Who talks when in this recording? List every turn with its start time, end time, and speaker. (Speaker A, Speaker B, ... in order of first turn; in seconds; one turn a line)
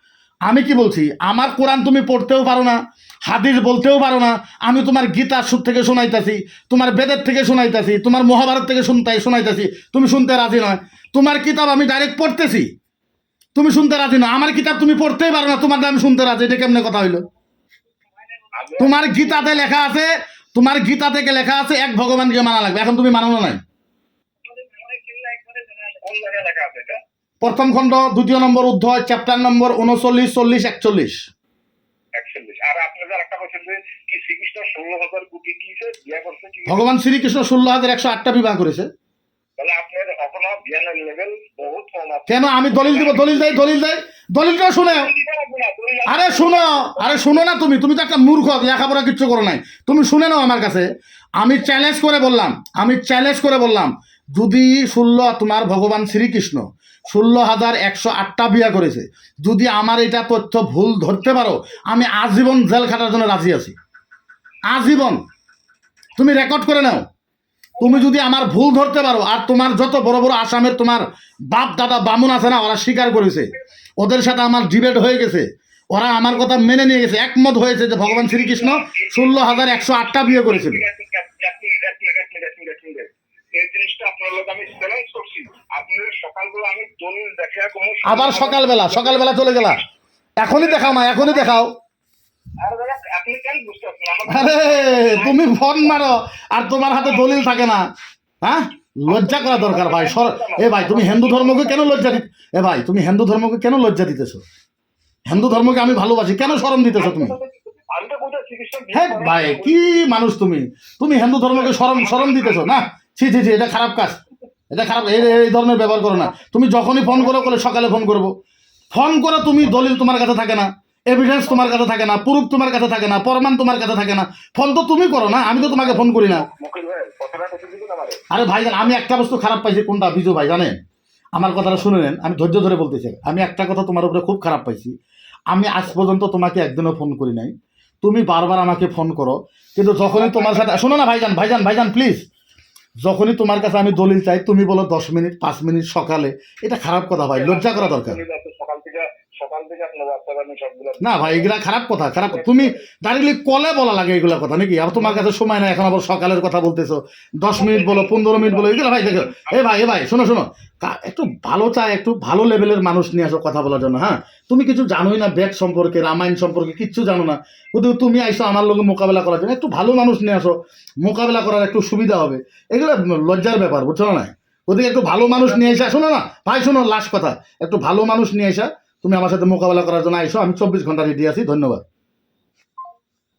Speaker A: 0.4-12.7
Speaker A: 13.5-17.2
Speaker B: 18.5-19.6
Speaker A: 18.8-23.6
Speaker B: 24.4-27.0
Speaker A: 27.4-31.3
Speaker B: 32.1-36.9
Speaker A: 36.6-38.9
Speaker B: 39.6-43.7
Speaker A: 42.3-45.1
Speaker B: 44.8-47.3
Speaker A: 46.1-63.7
Speaker A: 64.7-65.2
Speaker A: 66.2-67.0
Speaker A: 67.8-80.8
Speaker B: 78.0-89.7
Speaker A: 88.0-89.8
Speaker A: 90.4-91.7
Speaker B: 90.5-91.5
Speaker B: 92.6-95.6
Speaker A: 94.3-97.9
Speaker A: 98.4-104.4
Speaker B: 99.1-102.2
Speaker A: 105.2-107.3
Speaker B: 106.5-109.9
Speaker A: 108.9-114.2
Speaker B: 111.5-112.8
Speaker A: 114.7-118.3
Speaker A: 118.9-126.5
Speaker B: 125.4-128.2
Speaker A: 128.3-130.8
Speaker A: 131.3-134.9
Speaker A: 135.5-142.2
Speaker B: 140.1-140.9
Speaker A: 143.0-148.2
Speaker B: 147.3-151.5
Speaker A: 151.0-181.8
Speaker B: 152.2-152.8
Speaker B: 157.5-159.6
Speaker B: 175.1-175.9